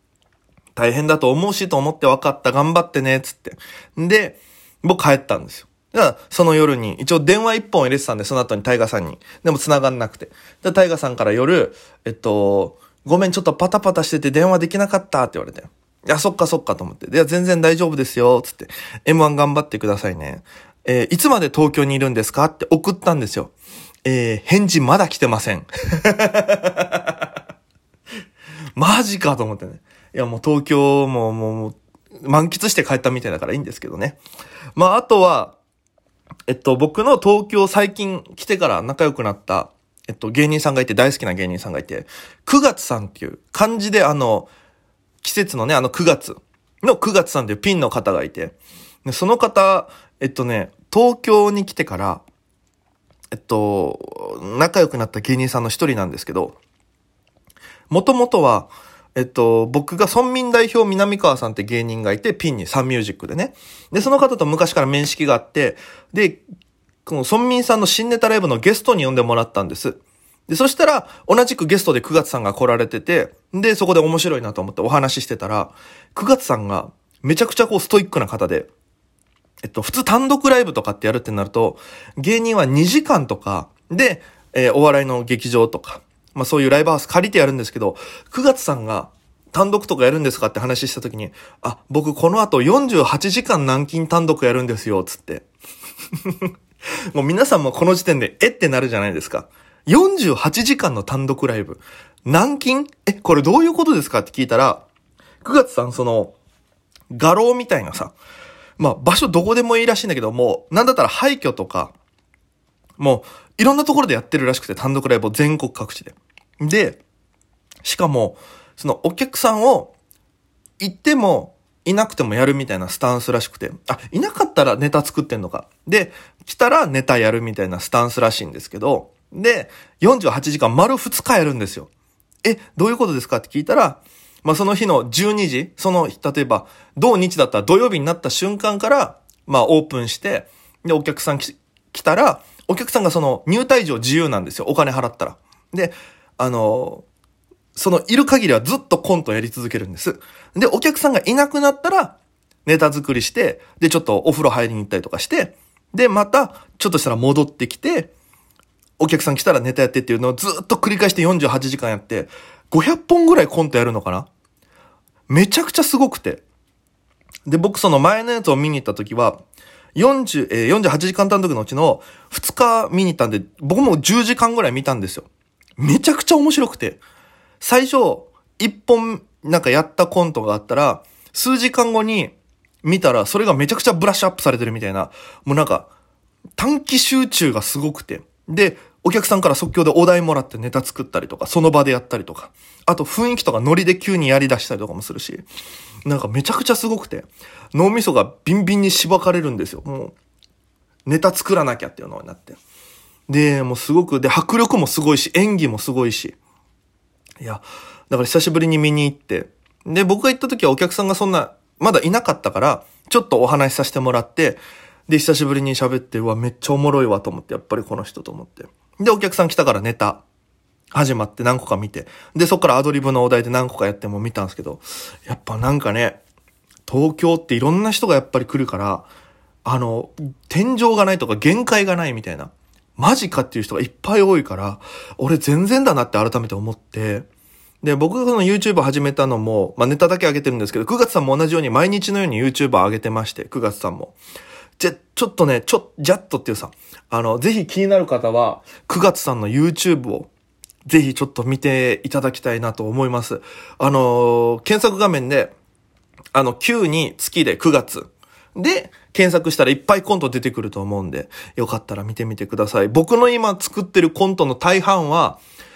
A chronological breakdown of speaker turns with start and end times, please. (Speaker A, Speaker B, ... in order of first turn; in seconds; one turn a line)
Speaker A: 0.8-23.5
Speaker A: 24.1-27.2
Speaker A: 28.8-34.2
Speaker A: 34.8-35.5
Speaker A: 36.5-44.5
Speaker A: 45.2-52.2
Speaker A: 53.3-56.6
Speaker A: 57.9-66.4
Speaker A: 67.1-78.7
Speaker A: 79.6-95.5
Speaker A: 97.1-104.8
Speaker A: 105.4-106.3
Speaker A: 107.1-108.1
Speaker A: 108.8-111.9
Speaker A: 113.0-117.0
Speaker A: 117.8-119.9
Speaker A: 120.8-131.9
Speaker A: 132.4-147.1
Speaker A: 147.8-158.1
Speaker A: 159.0-164.3
Speaker A: 165.3-166.4
Speaker A: 167.5-169.4
Speaker A: 169.9-175.3
Speaker A: 175.8-177.0
Speaker A: 177.6-185.9
Speaker A: 186.6-195.4
Speaker A: 196.1-200.2
Speaker A: 201.1-202.6
Speaker A: 203.3-206.3
Speaker A: 207.4-220.2
Speaker A: 220.9-226.2
Speaker A: 226.9-229.1
Speaker A: 229.7-237.3
Speaker A: 237.8-244.2
Speaker A: 244.8-250.3
Speaker A: 250.9-255.5
Speaker A: 256.3-265.4